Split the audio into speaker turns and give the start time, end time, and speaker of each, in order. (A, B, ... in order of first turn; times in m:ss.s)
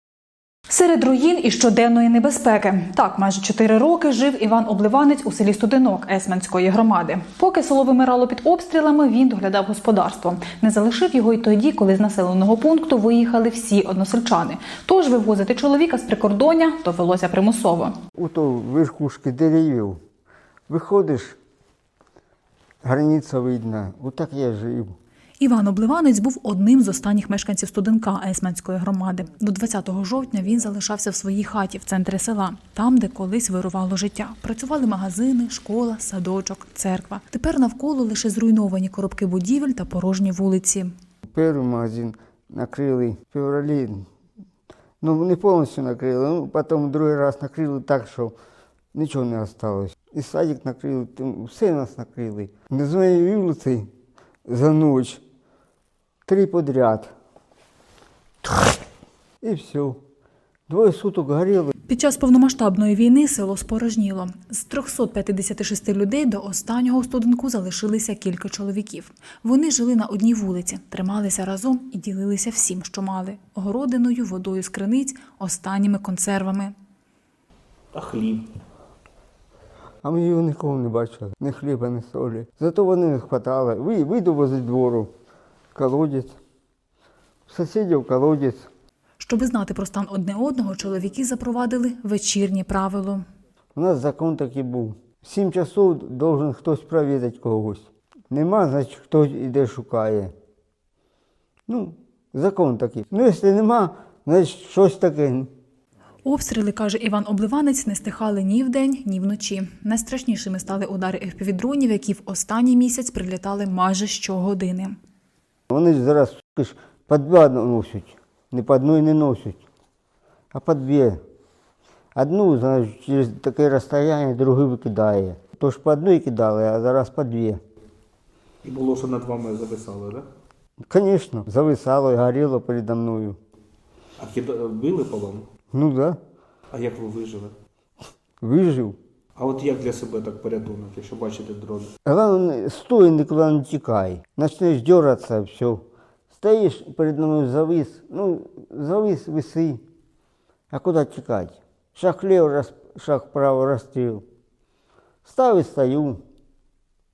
0:00.7-0:17.9 A
0:18.2-0:20.0 B
0:20.7-0:21.4 B
0:22.8-0:25.0 B
0:25.4-0:40.9 A
0:41.2-0:44.1 B
0:45.0-0:48.3 B
0:48.9-0:53.9 B
0:54.4-0:55.2 B
0:56.3-0:57.1 B
0:59.4-1:00.0 B
1:00.7-1:01.7 B
1:01.8-1:16.7 A
1:17.9-1:18.5 C
1:20.0-1:25.1 B
1:25.7-1:26.4 B
1:27.5-1:28.7 B
1:29.2-1:33.2 A
1:33.8-1:40.3 B
1:41.7-1:45.5 B
1:46.2-1:55.0 A
1:55.7-1:59.6 B
2:00.5-2:01.2 B
2:02.1-2:07.6 B
2:08.6-2:10.2 C
2:10.9-2:13.4 B
2:14.2-2:15.4 C
2:15.7-2:16.2 B
2:16.7-2:17.5 C
2:18.4-2:19.0 B
2:19.4-2:21.9 C
2:22.0-2:29.8 B
2:30.7-2:34.2 B
2:35.2-2:36.2 B